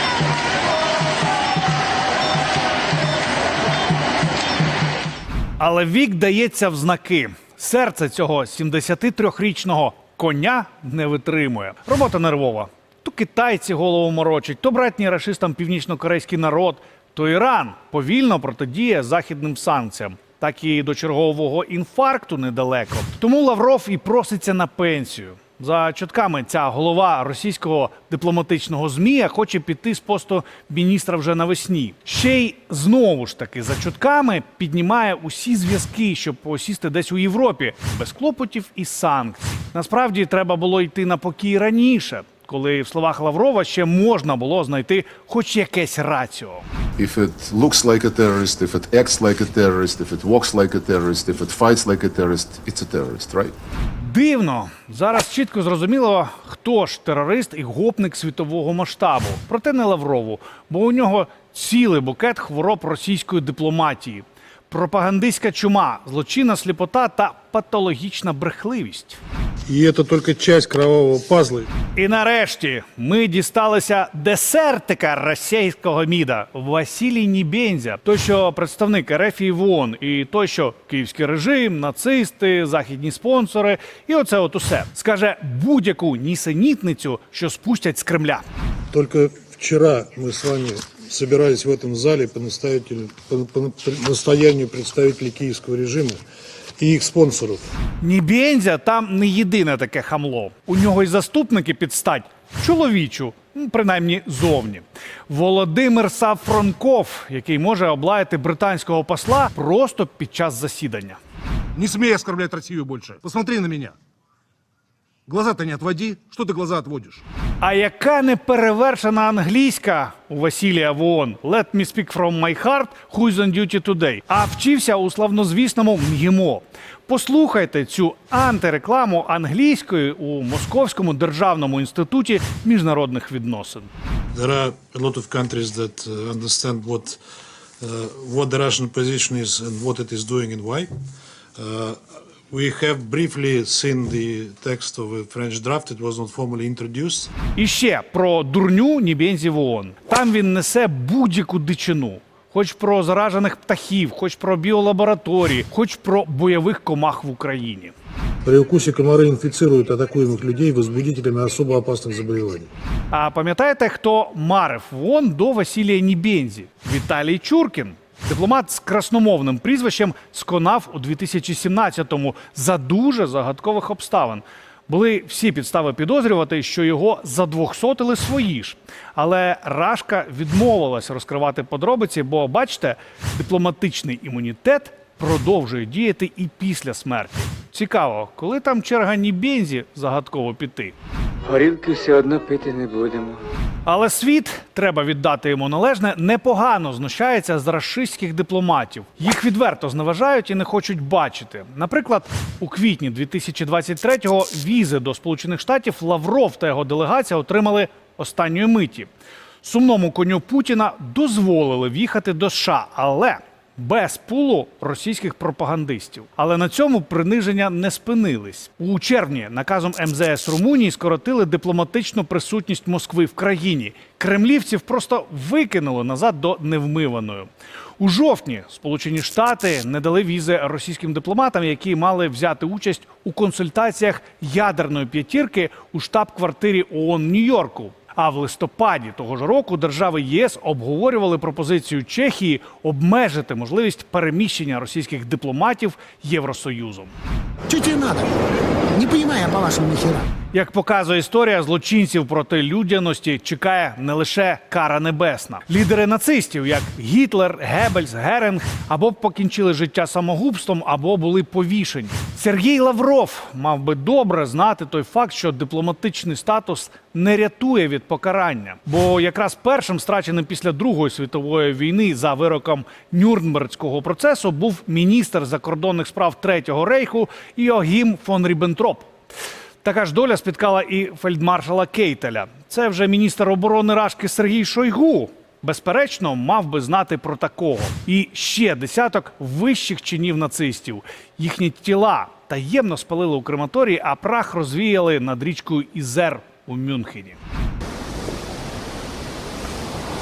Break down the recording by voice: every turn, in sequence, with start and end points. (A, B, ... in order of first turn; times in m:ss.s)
0:05.6-0:46.6 A
0:47.0-0:53.5 B
0:54.0-1:09.2 A
1:09.7-1:11.7 C
1:12.0-1:28.4 A
1:28.9-1:36.2 C
1:36.8-1:37.6 C
1:38.0-1:51.2 A
1:51.7-1:53.9 D
1:55.3-1:57.2 D
1:57.6-2:13.9 A
2:14.3-2:17.2 C
2:17.8-2:20.9 C
2:21.6-2:22.0 C
2:22.5-2:27.3 C
2:27.5-2:37.9 A
2:38.4-2:42.7 C
2:43.1-3:10.9 A
3:11.4-3:13.4 E
3:13.8-3:29.1 A
3:29.6-4:07.1 A
4:07.7-4:08.3 F
4:08.9-4:10.3 F
4:10.5-4:39.1 A
4:39.8-4:57.4 A